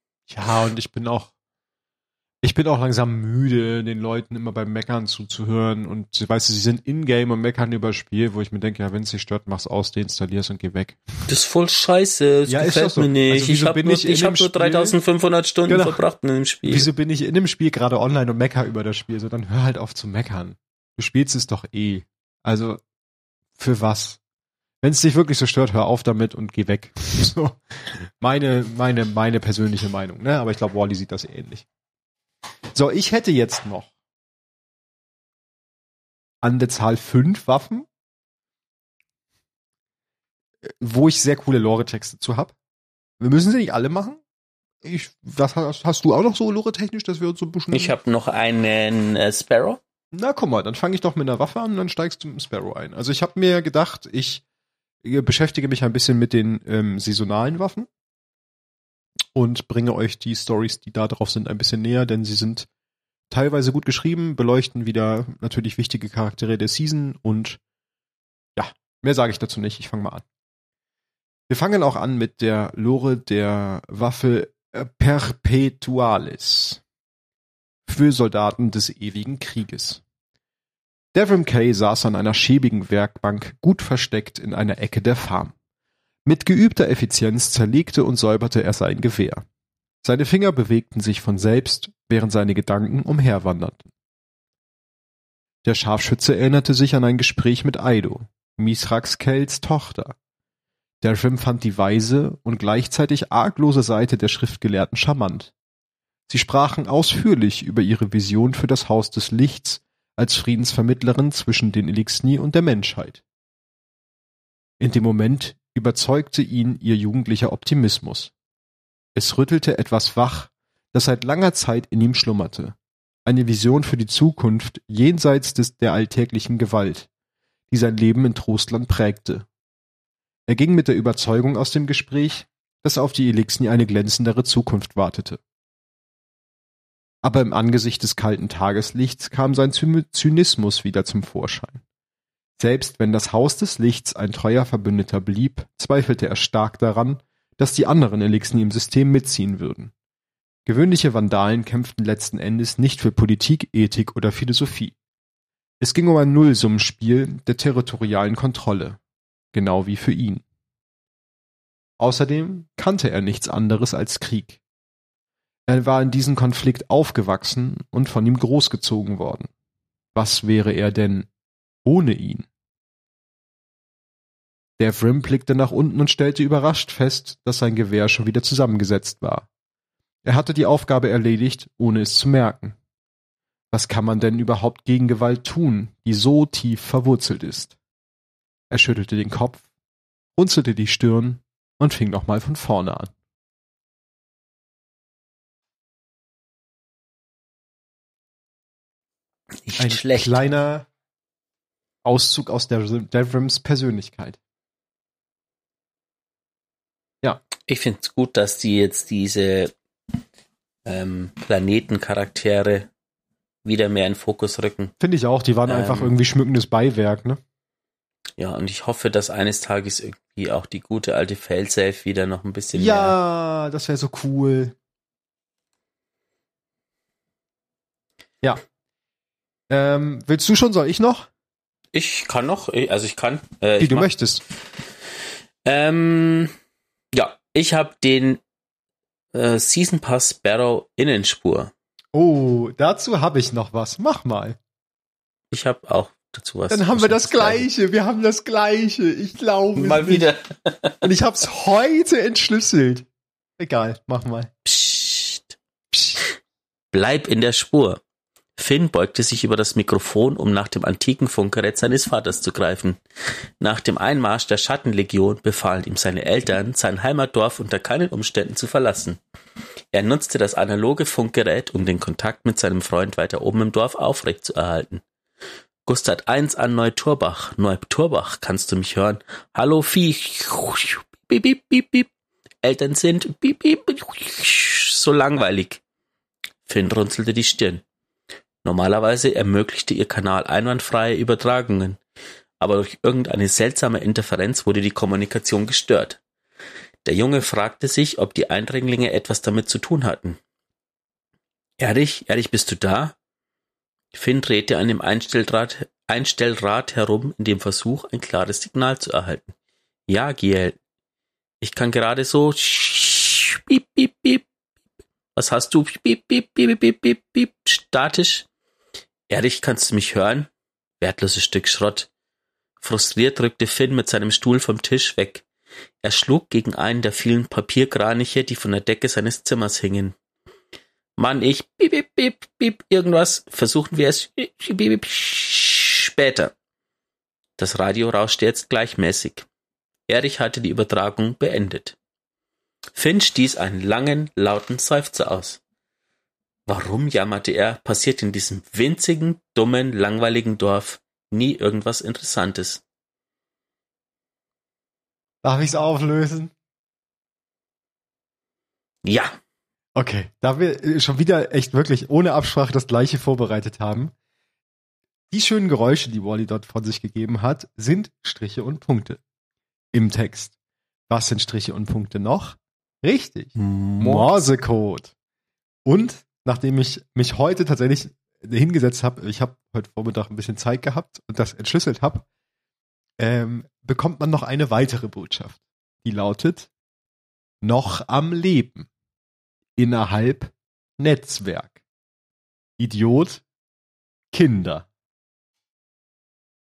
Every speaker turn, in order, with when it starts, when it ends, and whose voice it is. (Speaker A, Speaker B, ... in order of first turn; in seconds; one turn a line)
Speaker A: 0.3-1.3
Speaker A: 2.4-11.3
Speaker B: 11.3-16.9
Speaker A: 12.5-15.0
Speaker A: 15.7-16.0
Speaker A: 16.7-22.8
Speaker A: 23.6-24.2
Speaker A: 24.8-31.6
Speaker A: 32.7-33.9
Speaker A: 36.4-37.9
Speaker A: 40.6-42.5
Speaker A: 43.2-44.2
Speaker A: 44.8-47.9
Speaker B: 47.7-49.8
Speaker A: 50.1-54.4
Speaker A: 55.0-57.9
Speaker A: 59.3-62.7
Speaker A: 63.3-67.6
Speaker A: 68.5-70.2
Speaker A: 71.5-76.8
Speaker A: 77.8-80.0
Speaker A: 81.1-85.5
Speaker A: 86.2-89.4
Speaker A: 90.0-93.9
Speaker A: 95.6-100.2
Speaker A: 101.0-105.5
Speaker A: 106.3-113.2
Speaker A: 114.8-118.3
Speaker A: 119.1-127.1
Speaker A: 127.7-129.5
Speaker A: 130.5-135.4
Speaker A: 137.2-141.8
Speaker A: 142.6-149.9
Speaker A: 150.7-154.9
Speaker A: 155.8-159.0
Speaker A: 159.5-160.4
Speaker A: 162.0-164.6
Speaker A: 165.7-169.5
Speaker A: 170.1-171.3
Speaker A: 171.8-172.4
Speaker A: 174.8-179.5
Speaker A: 180.2-182.8
Speaker A: 183.7-187.8
Speaker A: 188.7-189.6
Speaker A: 190.4-193.1
Speaker B: 199.6-200.4
Speaker A: 199.8-200.9
Speaker A: 202.0-204.4
Speaker B: 207.7-209.7
Speaker B: 210.8-212.9
Speaker B: 213.6-214.9
Speaker A: 215.0-217.4
Speaker B: 215.7-216.2
Speaker B: 218.4-223.2
Speaker A: 222.7-224.7
Speaker A: 229.7-231.3
Speaker B: 231.9-234.1
Speaker A: 233.8-234.4
Speaker B: 234.8-236.5
Speaker B: 237.1-238.4
Speaker B: 239.3-241.7
Speaker A: 242.1-244.6
Speaker B: 245.5-247.7
Speaker A: 246.7-250.3
Speaker B: 249.7-251.0
Speaker A: 251.0-254.5
Speaker B: 254.6-255.6
Speaker B: 256.9-258.0
Speaker B: 258.6-263.0
Speaker B: 263.6-269.2
Speaker B: 269.9-275.0
Speaker B: 275.9-282.1
Speaker B: 282.6-285.8
Speaker B: 286.6-287.8
Speaker B: 288.6-292.0
Speaker B: 292.6-296.2
Speaker B: 297.0-300.4
Speaker B: 301.8-303.1
Speaker B: 304.1-309.5
Speaker B: 310.1-310.8
Speaker B: 311.6-314.4
Speaker B: 315.4-318.5
Speaker B: 319.3-320.5
Speaker B: 321.0-322.1
Speaker B: 322.8-325.4
Speaker B: 326.0-330.1
Speaker B: 331.2-336.5
Speaker B: 337.6-339.4
Speaker B: 340.1-342.0
Speaker B: 342.9-345.6
Speaker B: 346.7-352.8
Speaker A: 355.4-356.5
Speaker B: 359.0-359.4
Speaker A: 359.9-364.1
Speaker A: 365.3-369.2
Speaker A: 369.9-370.5
Speaker A: 371.1-375.1
Speaker B: 373.6-374.3
Speaker A: 375.8-382.2
Speaker A: 383.2-386.7
Speaker A: 387.6-388.9
Speaker A: 389.8-391.8
Speaker A: 392.8-393.4
Speaker A: 394.3-394.9